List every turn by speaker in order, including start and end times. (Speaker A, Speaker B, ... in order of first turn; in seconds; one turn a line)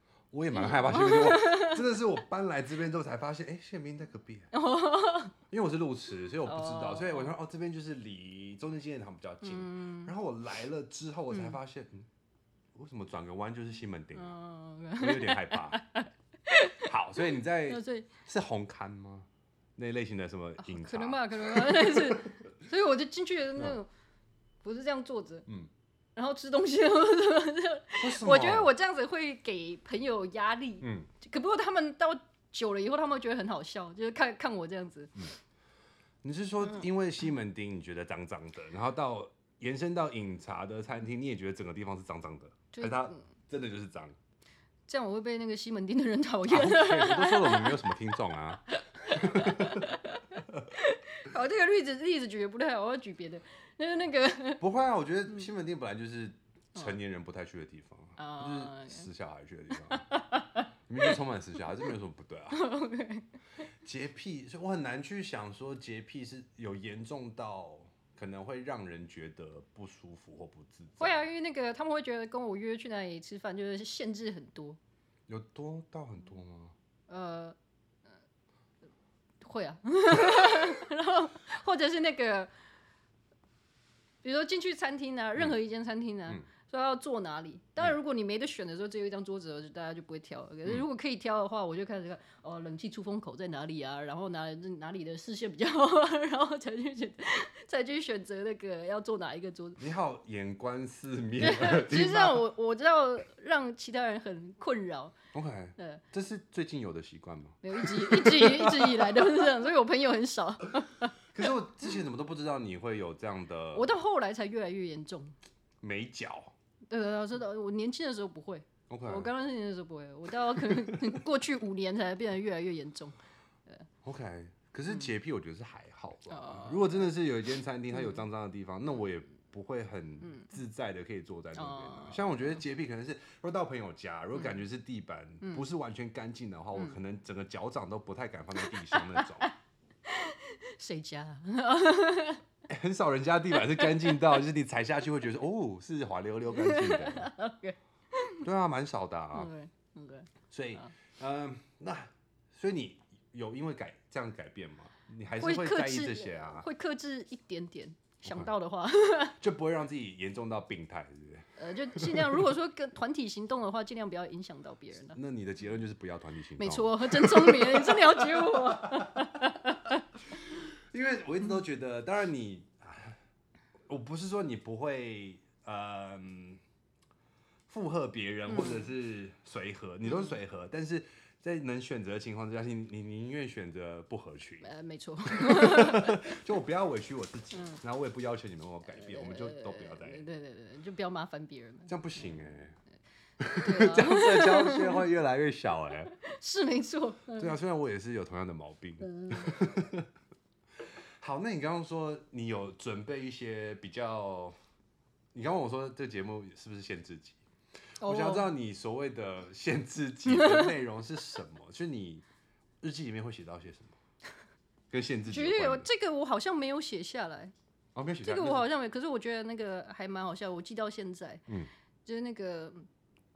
Speaker A: 0.3-4.5
Speaker B: 0.5-1.9
Speaker B: 4.5-5.3
Speaker A: 5.5-12.1
Speaker B: 6.4-7.3
Speaker B: 9.4-10.1
Speaker B: 11.3-11.6
Speaker A: 12.7-14.3
Speaker B: 14.1-18.1
Speaker A: 15.0-15.8
Speaker A: 16.7-22.3
Speaker B: 20.6-23.9
Speaker B: 24.6-25.4
Speaker B: 26.1-35.2
Speaker A: 28.0-28.7
Speaker A: 30.8-31.1
Speaker A: 36.2-44.1
Speaker B: 42.7-43.2
Speaker B: 44.9-48.2
Speaker A: 46.5-49.9
Speaker B: 48.7-54.6
Speaker A: 54.6-60.1
Speaker B: 58.2-59.1
Speaker B: 59.7-61.2
Speaker A: 60.9-62.7
Speaker B: 62.5-63.3
Speaker A: 63.8-71.2
Speaker B: 71.0-74.8
Speaker A: 75.3-76.7
Speaker B: 77.1-77.6
Speaker B: 79.4-82.5
Speaker B: 84.2-99.8
Speaker A: 99.8-102.5
Speaker B: 101.4-105.1
Speaker A: 105.3-109.5
Speaker B: 105.8-106.0
Speaker B: 107.6-111.2
Speaker A: 111.3-113.9
Speaker B: 113.7-115.3
Speaker A: 115.8-116.5
Speaker B: 116.9-123.8
Speaker A: 118.9-119.3
Speaker A: 120.7-121.1
Speaker A: 124.0-139.5
Speaker B: 126.3-127.1
Speaker B: 127.9-128.2
Speaker B: 131.5-132.6
Speaker B: 134.3-134.6
Speaker B: 138.6-139.5
Speaker B: 140.0-142.4
Speaker A: 142.7-147.3
Speaker B: 143.5-144.4
Speaker B: 146.5-148.4
Speaker A: 148.4-149.5
Speaker B: 149.3-150.9
Speaker A: 150.5-156.7
Speaker B: 155.4-159.4
Speaker A: 159.4-162.5
Speaker B: 161.6-165.2
Speaker A: 165.1-169.3
Speaker B: 166.6-170.0
Speaker A: 170.5-173.2
Speaker A: 173.9-176.6
Speaker A: 177.7-184.7
Speaker B: 178.5-178.9
Speaker B: 180.1-180.4
Speaker B: 184.6-186.3
Speaker A: 185.3-190.2
Speaker B: 187.5-187.8
Speaker B: 188.9-192.4
Speaker A: 191.9-192.8
Speaker A: 193.4-196.1
Speaker B: 193.6-195.1
Speaker B: 196.1-197.5
Speaker A: 197.3-200.1
Speaker B: 199.0-199.6
Speaker A: 201.2-204.5
Speaker A: 205.3-207.4
Speaker B: 208.0-208.5
Speaker A: 208.0-212.2
Speaker B: 210.3-210.7
Speaker A: 212.8-213.9
Speaker A: 214.9-215.9
Speaker B: 215.3-217.5
Speaker A: 217.9-218.7
Speaker B: 218.2-221.4
Speaker B: 222.0-222.8